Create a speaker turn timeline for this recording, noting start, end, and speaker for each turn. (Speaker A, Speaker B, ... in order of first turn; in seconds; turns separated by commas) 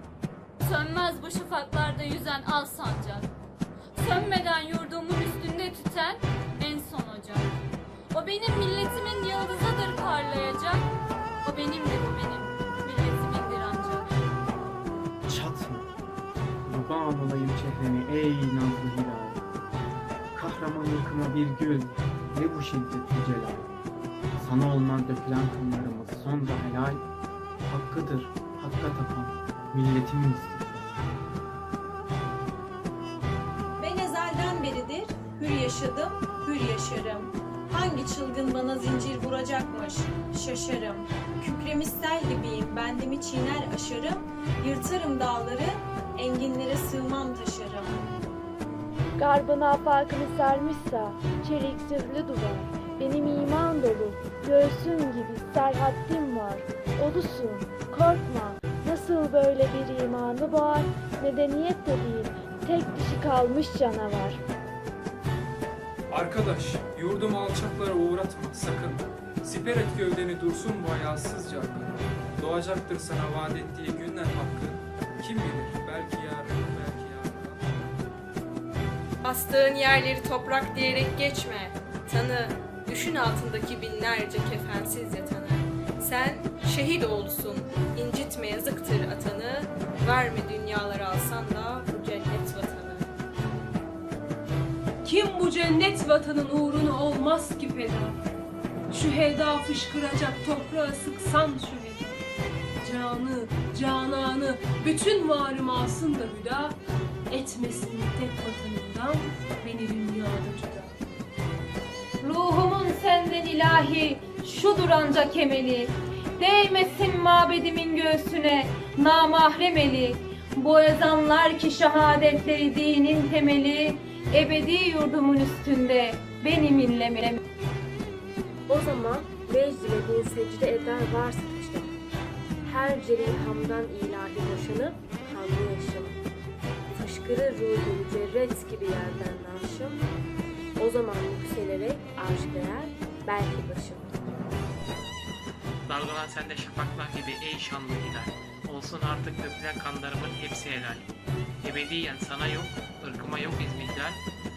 Speaker A: 0.6-3.3, Speaker A: 4.0-7.5, Speaker A: 8.1-10.9, Speaker A: 11.4-14.1, Speaker B: 15.3-15.9, Speaker B: 16.6-19.4, Speaker B: 20.3-23.7, Speaker B: 24.4-27.0, Speaker B: 27.7-30.9, Speaker C: 33.8-48.0, Speaker D: 49.2-64.4, Speaker E: 66.1-77.8, Speaker F: 79.2-93.1, Speaker G: 95.0-98.2, Speaker G: 98.9-102.2, Speaker G: 102.8-106.8, Speaker G: 107.3-111.0, Speaker H: 112.2-127.4, Speaker I: 128.7-131.9, Speaker I: 132.6-136.2, Speaker I: 136.9-140.1, Speaker I: 140.8-144.2, Speaker J: 145.9-151.1, Speaker J: 151.6-154.2